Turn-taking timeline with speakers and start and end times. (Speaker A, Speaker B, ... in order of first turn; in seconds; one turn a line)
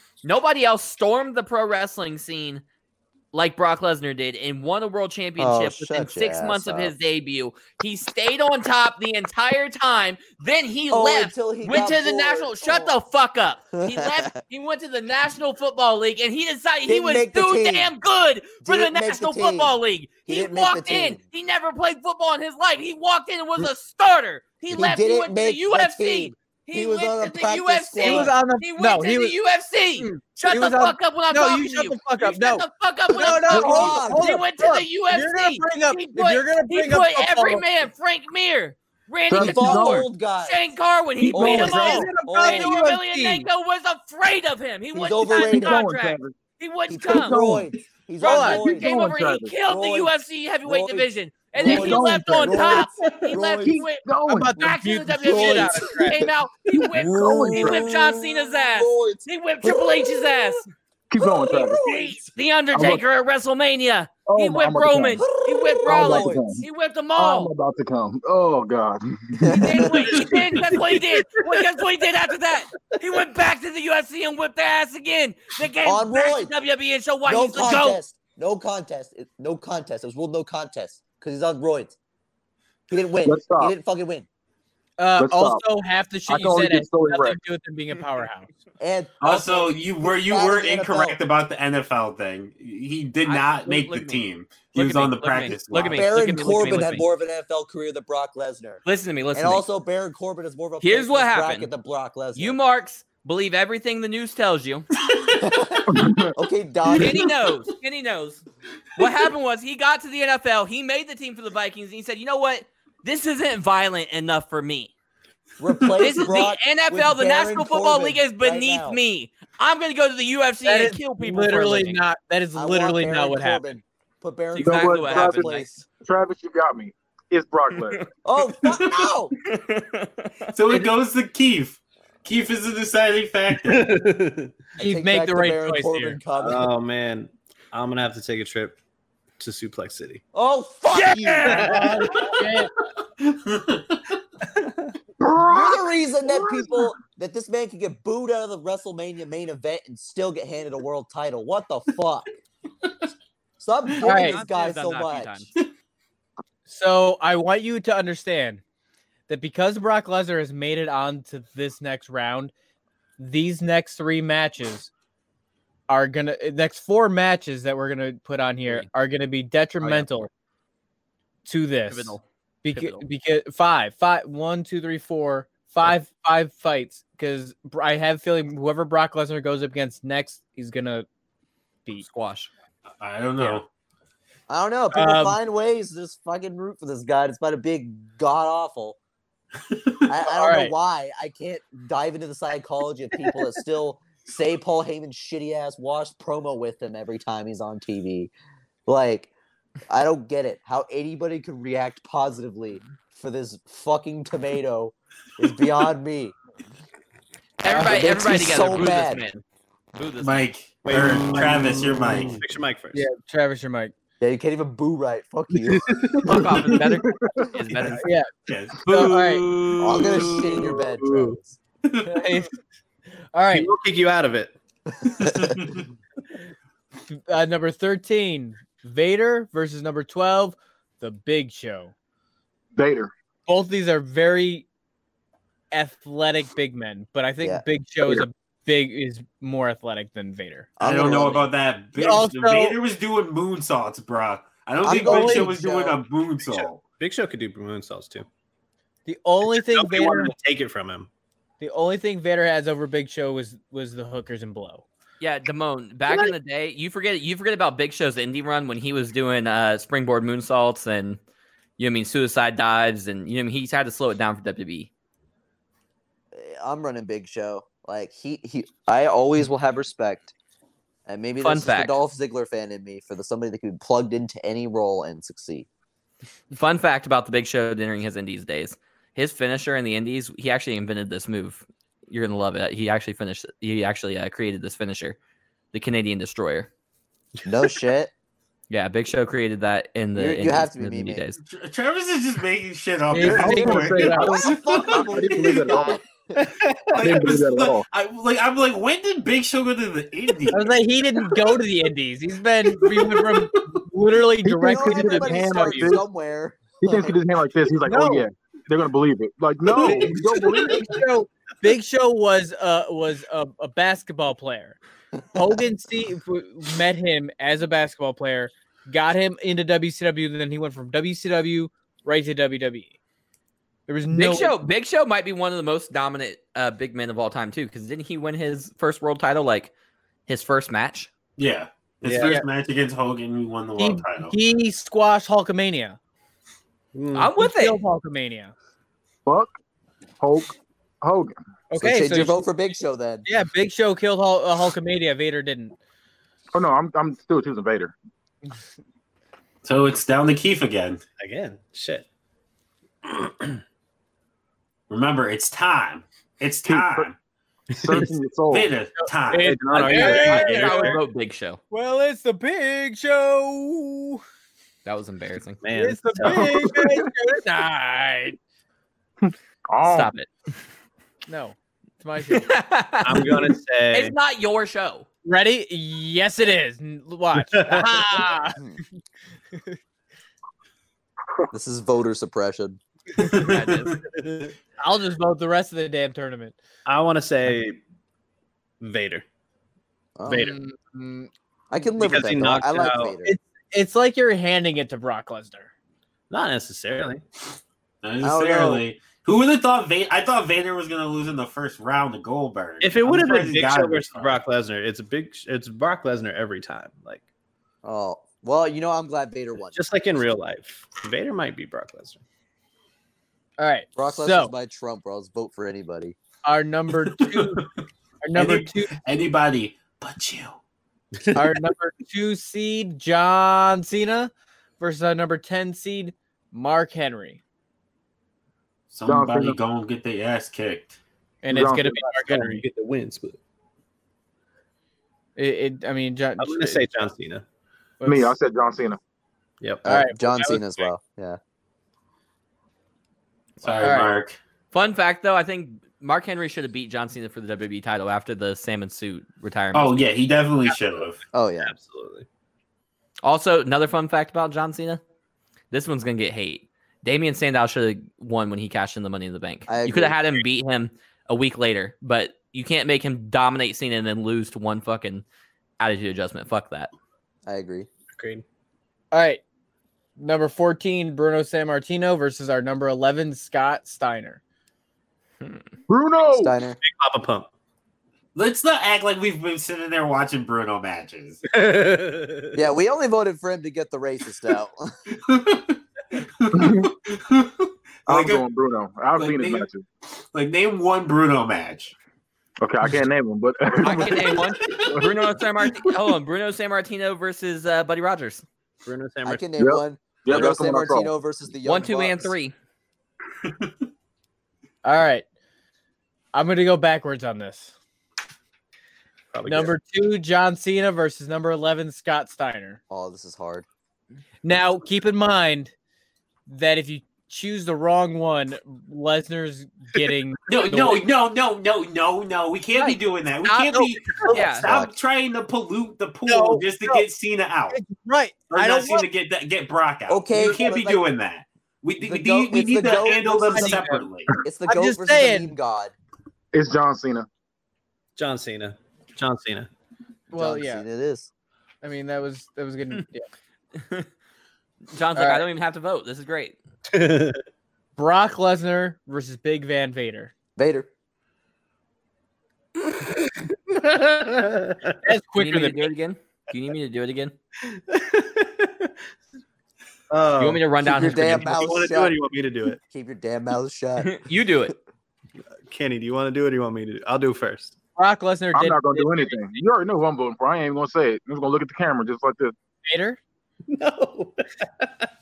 Speaker A: 0.2-2.6
Speaker A: 3.3-47.4
Speaker B: 5.4-6.9
Speaker B: 10.9-12.9
Speaker B: 13.7-14.3
Speaker B: 16.9-17.9
Speaker B: 18.6-21.2
Speaker B: 24.7-28.3
Speaker C: 28.0-29.3
Speaker C: 30.0-37.6
Speaker B: 33.4-34.4
Speaker D: 39.3-40.0
Speaker B: 39.3-40.6
Speaker D: 41.2-41.9
Speaker B: 41.3-42.8
Speaker C: 41.5-43.5
Speaker B: 44.9-45.8
Speaker D: 45.3-46.4
Speaker B: 46.9-49.0
Speaker D: 47.1-47.7
Speaker A: 48.2-60.7
Speaker C: 48.2-48.6
Speaker D: 48.6-49.5
Speaker B: 49.6-53.8
Speaker D: 51.6-52.8
Speaker D: 53.6-54.7
Speaker C: 54.3-56.2
Speaker B: 55.1-56.3
Speaker B: 56.9-60.6
Speaker D: 57.0-57.9
Speaker D: 61.1-61.8
Speaker B: 61.2-62.2
Speaker A: 61.6-67.5
Speaker D: 62.7-63.0
Speaker D: 64.2-69.9
Speaker B: 65.2-66.6
Speaker B: 69.4-70.2
Speaker A: 69.5-78.0
Speaker E: 71.2-71.6
Speaker B: 75.8-76.5
Speaker B: 77.2-81.9
Speaker B: 82.9-84.2
Speaker D: 83.2-83.7
Speaker C: 85.0-88.5
Speaker D: 85.2-85.6
Speaker D: 86.3-87.4
Speaker B: 88.8-91.2
Speaker F: 89.2-96.6
Speaker A: 93.2-97.0
Speaker B: 95.9-98.8
Speaker A: 98.8-99.6
Speaker B: 99.3-102.6
Speaker A: 100.8-101.7
Speaker A: 102.3-104.9
Speaker F: 105.1-105.4
Speaker B: 105.3-107.3
Speaker D: 105.9-106.3
Speaker A: 106.9-108.4
Speaker A: 109.0-114.9
Speaker B: 115.6-119.0
Speaker A: 116.0-122.0
Speaker C: 120.6-123.7
Speaker B: 122.5-125.7
Speaker A: 124.5-125.8
Speaker D: 124.6-128.0
Speaker B: 128.2-129.3
Speaker F: 128.6-129.1
Speaker A: 129.4-130.9
Speaker F: 130.5-133.9
Speaker E: 133.5-134.5
Speaker C: 134.8-136.2
Speaker B: 134.8-136.7
Speaker E: 136.4-138.8
Speaker E: 139.4-140.2
Speaker B: 140.3-141.7
Speaker A: 140.9-141.7
Speaker C: 141.4-142.7
Speaker E: 141.5-142.1
Speaker F: 143.2-144.2
Speaker D: 145.2-146.9
Speaker B: 145.4-152.3
Speaker B: 153.6-155.5
Speaker C: 154.0-154.4
Speaker A: 154.0-155.5
Speaker C: 156.7-158.6
Speaker C: 159.3-162.5
Speaker C: 163.2-164.9
Speaker C: 165.9-170.3
Speaker A: 169.8-170.2
Speaker C: 171.4-181.1
Speaker A: 171.9-173.0
Speaker A: 182.0-182.5
Speaker F: 183.0-183.7
Speaker B: 184.5-189.0
Speaker C: 184.9-185.4
Speaker B: 190.1-198.3
Speaker C: 190.3-190.7
Speaker B: 198.9-199.3
Speaker B: 199.9-206.3
Speaker A: 207.6-209.4
Speaker B: 207.7-209.2
Speaker A: 209.9-210.4
Speaker F: 210.2-212.4
Speaker E: 210.8-213.1
Speaker C: 212.9-213.9
Speaker B: 214.2-216.2
Speaker E: 215.6-216.4
Speaker A: 216.2-218.1
Speaker D: 216.3-217.5
Speaker C: 218.0-218.3
Speaker F: 218.5-220.8
Speaker C: 218.8-219.5
Speaker A: 218.9-219.6
Speaker B: 219.8-221.6
Speaker E: 219.9-221.4
Speaker F: 221.8-222.2
Speaker C: 222.0-222.5
Speaker C: 223.3-223.7
Speaker E: 223.5-224.5
Speaker B: 225.2-225.5
Speaker F: 225.2-225.8
Speaker C: 227.1-231.9
Speaker D: 232.8-233.1
Speaker C: 233.5-234.7
Speaker C: 235.7-240.8
Speaker B: 240.8-241.4
Speaker F: 240.8-246.8
Speaker C: 241.9-242.8
Speaker B: 244.8-246.0
Speaker C: 244.8-245.5
Speaker E: 247.0-248.3
Speaker C: 249.1-250.3
Speaker E: 249.4-251.1
Speaker C: 251.6-254.8
Speaker A: 255.2-261.2
Speaker A: 261.8-264.9
Speaker B: 266.3-270.3
Speaker B: 271.1-275.7
Speaker A: 271.4-272.0
Speaker A: 276.5-285.2
Speaker A: 285.7-286.7
Speaker B: 287.4-288.1
Speaker A: 288.7-291.4
Speaker B: 290.1-291.2
Speaker F: 291.4-295.8
Speaker C: 293.1-294.4
Speaker D: 293.2-296.0
Speaker B: 293.9-296.5
Speaker E: 296.4-297.3
Speaker F: 296.9-300.7
Speaker D: 297.0-297.8
Speaker C: 300.5-306.0
Speaker F: 302.9-303.7
Speaker D: 304.4-306.0
Speaker B: 304.6-307.2
Speaker D: 306.8-310.8
Speaker C: 307.9-308.3
Speaker C: 309.8-314.8
Speaker C: 315.3-322.9
Speaker C: 323.9-324.5
Speaker A: 324.1-329.7
Speaker A: 330.3-331.1
Speaker F: 331.4-334.3
Speaker E: 332.0-332.4
Speaker C: 333.8-336.0
Speaker E: 336.9-337.3
Speaker A: 337.1-337.8
Speaker C: 337.4-338.5
Speaker D: 340.2-341.3
Speaker C: 341.7-342.4
Speaker B: 341.8-343.2
Speaker C: 343.2-345.7
Speaker D: 346.5-347.9
Speaker F: 349.6-351.0
Speaker E: 351.2-352.1
Speaker E: 353.0-353.6
Speaker F: 354.9-357.1
Speaker D: 356.6-357.1
Speaker E: 357.7-358.1
Speaker D: 357.8-358.7
Speaker F: 358.5-360.4
Speaker C: 359.0-361.0
Speaker E: 359.4-361.0
Speaker A: 359.8-361.6
Speaker C: 361.7-364.2
Speaker A: 364.8-365.6
Speaker E: 365.6-366.7
Speaker C: 365.7-368.4
Speaker D: 366.2-367.0
Speaker D: 369.2-370.1
Speaker A: 369.8-370.3
Speaker C: 371.3-372.5
Speaker A: 372.3-375.1
Speaker E: 373.0-374.1
Speaker C: 375.2-378.6
Speaker E: 377.5-378.1
Speaker B: 381.5-382.8
Speaker F: 383.2-383.9
Speaker A: 383.4-384.0
Speaker E: 384.1-384.5
Speaker C: 384.8-386.6
Speaker E: 386.9-387.8
Speaker E: 388.8-389.2
Speaker B: 390.2-390.6
Speaker E: 390.2-390.6
Speaker C: 390.6-391.3
Speaker B: 391.7-393.3
Speaker E: 392.0-393.1
Speaker C: 393.2-395.7
Speaker E: 396.3-397.2
Speaker F: 398.0-404.4
Speaker B: 398.2-398.8
Speaker E: 402.8-407.2
Speaker B: 407.8-409.8
Speaker E: 409.7-412.2
Speaker C: 413.6-414.5
Speaker B: 413.9-416.2
Speaker C: 416.4-417.7
Speaker F: 417.4-417.7
Speaker C: 418.2-418.9
Speaker F: 418.3-420.6
Speaker E: 421.2-421.5
Speaker C: 421.3-427.4
Speaker F: 428.9-431.0
Speaker D: 429.1-429.6
Speaker C: 431.4-432.6
Speaker D: 431.5-431.9
Speaker E: 432.0-433.4
Speaker C: 435.4-436.9
Speaker E: 436.4-437.4
Speaker C: 438.0-438.3
Speaker D: 438.1-439.0
Speaker E: 439.6-439.9
Speaker B: 439.8-441.4
Speaker C: 439.9-440.2
Speaker F: 443.6-444.4
Speaker C: 443.8-444.1
Speaker A: 444.7-450.0
Speaker F: 449.7-451.2
Speaker B: 451.3-451.7
Speaker E: 451.6-452.2
Speaker A: 453.2-455.0
Speaker A: 455.7-465.2
Speaker B: 459.7-460.2
Speaker A: 465.8-466.9
Speaker B: 467.4-467.9
Speaker E: 468.1-468.4
Speaker C: 469.1-469.4
Speaker C: 470.2-474.4
Speaker D: 475.9-476.5
Speaker B: 476.3-476.8
Speaker E: 476.8-477.5
Speaker F: 478.3-481.4
Speaker E: 481.5-482.6
Speaker B: 482.5-484.9
Speaker F: 485.1-488.4
Speaker D: 486.5-486.9
Speaker D: 488.1-489.8
Speaker F: 489.1-491.9
Speaker D: 492.6-495.1
Speaker A: 493.8-498.4
Speaker F: 494.6-495.0
Speaker E: 498.8-499.5
Speaker B: 499.2-502.3
Speaker D: 499.6-501.1
Speaker A: 501.6-502.5
Speaker C: 504.8-505.2
Speaker C: 506.3-507.7
Speaker E: 509.3-509.7
Speaker C: 509.4-512.8
Speaker B: 512.9-513.6
Speaker C: 514.4-515.7
Speaker C: 516.5-521.0
Speaker F: 520.5-527.8
Speaker C: 523.4-524.5
Speaker A: 524.3-524.7
Speaker B: 524.6-524.9
Speaker C: 526.3-527.0
Speaker C: 527.7-529.1
Speaker F: 528.5-534.3
Speaker B: 530.1-531.0
Speaker B: 532.0-533.8
Speaker C: 533.5-534.0
Speaker B: 534.4-535.9
Speaker C: 534.6-535.5
Speaker D: 536.5-537.3
Speaker E: 538.1-539.7
Speaker C: 540.3-540.8
Speaker B: 540.3-541.3
Speaker C: 541.8-543.3
Speaker A: 543.8-544.1
Speaker A: 544.9-546.6
Speaker C: 545.1-545.4
Speaker E: 546.9-547.4
Speaker C: 548.0-550.3
Speaker B: 550.6-550.9
Speaker E: 553.2-555.0
Speaker C: 555.0-555.9
Speaker A: 555.4-557.3
Speaker E: 557.6-558.9
Speaker E: 560.1-562.8
Speaker A: 560.4-561.5
Speaker B: 560.8-562.2
Speaker B: 562.9-564.2
Speaker A: 564.0-564.7
Speaker E: 565.7-567.7
Speaker C: 568.0-569.4
Speaker D: 568.5-572.5
Speaker C: 572.9-573.2
Speaker E: 573.7-575.1